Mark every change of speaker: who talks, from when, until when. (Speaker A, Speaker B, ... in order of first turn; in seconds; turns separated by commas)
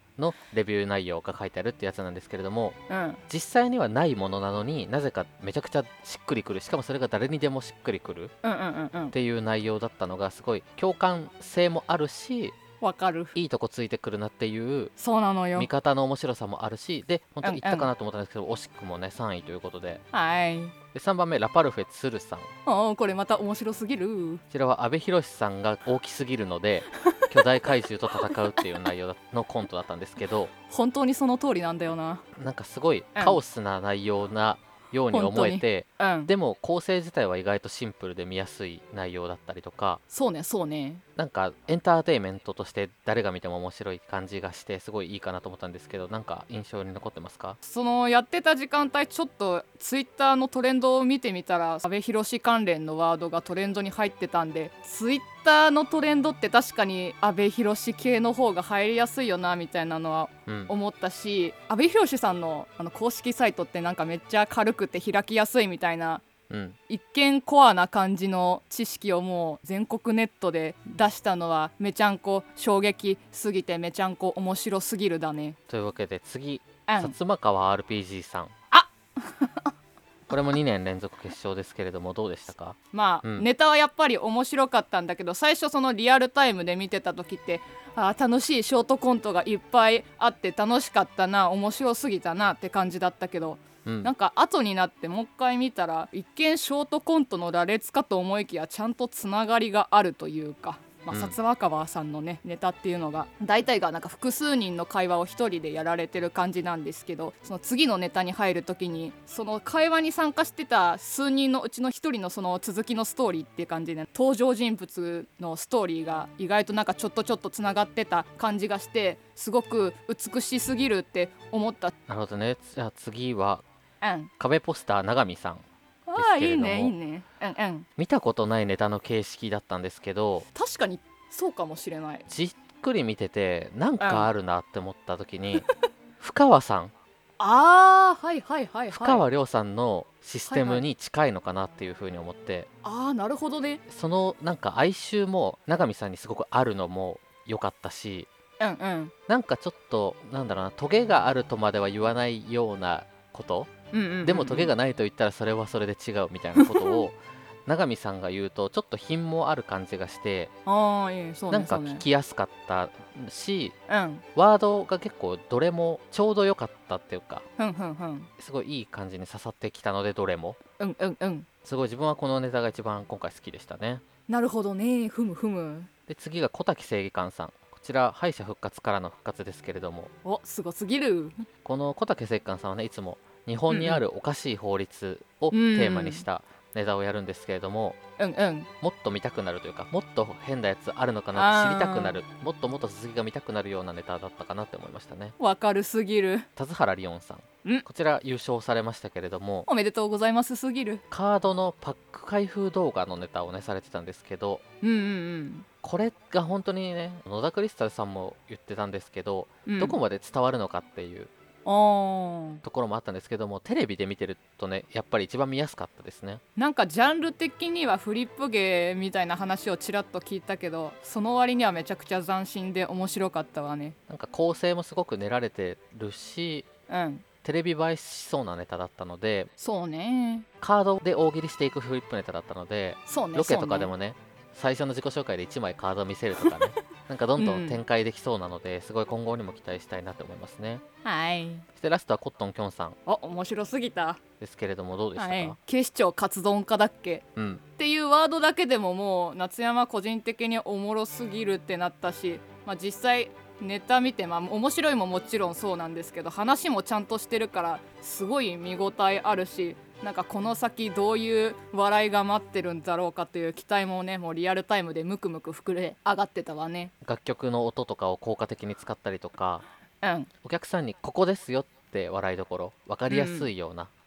Speaker A: 0.2-8.3, Speaker B: 2.9-3.2, Speaker B: 8.4-9.2, Speaker A: 9.1-12.6, Speaker B: 12.8-13.4, Speaker A: 13.3-14.9, Speaker B: 15.0-15.7, Speaker A: 15.6-20.0, Speaker B: 17.4-17.9, Speaker B: 20.1-20.8, Speaker A: 20.9-22.5, Speaker B: 22.6-24.4, Speaker A: 24.5-30.5, Speaker B: 30.7-32.2, Speaker A: 32.4-40.0, Speaker B: 35.1-36.3, Speaker B: 40.1-41.0, Speaker A: 41.2-47.6, Speaker B: 47.6-66.2, Speaker A: 60.5-60.7, Speaker A: 66.5-66.8, Speaker B: 66.9-75.6, Speaker A: 75.7-78.5, Speaker B: 76.9-77.2, Speaker B: 78.7-79.7, Speaker A: 80.3-83.5, Speaker B: 82.9-121.9, Speaker A: 93.8-94.1, Speaker A: 122.1-123.6, Speaker B: 124.0-124.3, Speaker A: 124.4-125.7, Speaker B: 126.1-127.9, Speaker A: 126.2-126.9, Speaker A: 128.0-130.5, Speaker B: 130.5-132.2, Speaker A: 132.3-135.7, Speaker B: 134.0-134.3, Speaker A: 136.2-136.9, Speaker B: 137.4-139.2, Speaker A: 138.9-142.7, Speaker B: 140.5-140.8, Speaker B: 142.8-143.8, Speaker A: 143.9-148.3, Speaker B: 148.6-149.1, Speaker A: 149.3-153.7, Speaker B: 153.9-154.7, Speaker A: 154.2-160.5, Speaker B: 156.6-157.1, Speaker B: 160.7-162.1, Speaker A: 161.5-163.8, Speaker B: 163.9-164.2, Speaker A: 164.4-167.4, Speaker B: 167.6-168.3, Speaker A: 168.4-170.6, Speaker B: 170.8-171.5, Speaker A: 171.6-174.0, Speaker B: 174.3-175.9, Speaker A: 176.1-180.1, Speaker B: 180.2-181.5, Speaker A: 181.6-188.0, Speaker B: 183.7-184.0, Speaker B: 185.5-186.3, Speaker B: 188.2-188.7, Speaker A: 188.8-195.3, Speaker B: 191.3-192.2, Speaker B: 195.4-196.5, Speaker A: 196.6-199.7, Speaker B: 199.7-201.0, Speaker A: 201.1-204.6, Speaker B: 204.8-205.7, Speaker A: 205.8-211.3, Speaker B: 209.7-210.0, Speaker B: 211.7-212.6, Speaker A: 212.6-216.4, Speaker B: 216.6-224.0, Speaker A: 224.1-226.7, Speaker B: 226.9-227.2, Speaker A: 227.4-229.5, Speaker B: 229.6-230.5, Speaker A: 230.6-240.8, Speaker B: 233.1-233.9, Speaker B: 237.4-237.8, Speaker B: 241.0-241.7, Speaker A: 241.8-243.0, Speaker B: 243.1-244.2, Speaker A: 244.4-245.6, Speaker B: 245.2-247.2, Speaker A: 247.4-247.6, Speaker B: 247.8-266.9, Speaker A: 267.0-269.6, Speaker B: 270.0-270.3, Speaker A: 270.4-273.9, Speaker B: 273.1-273.5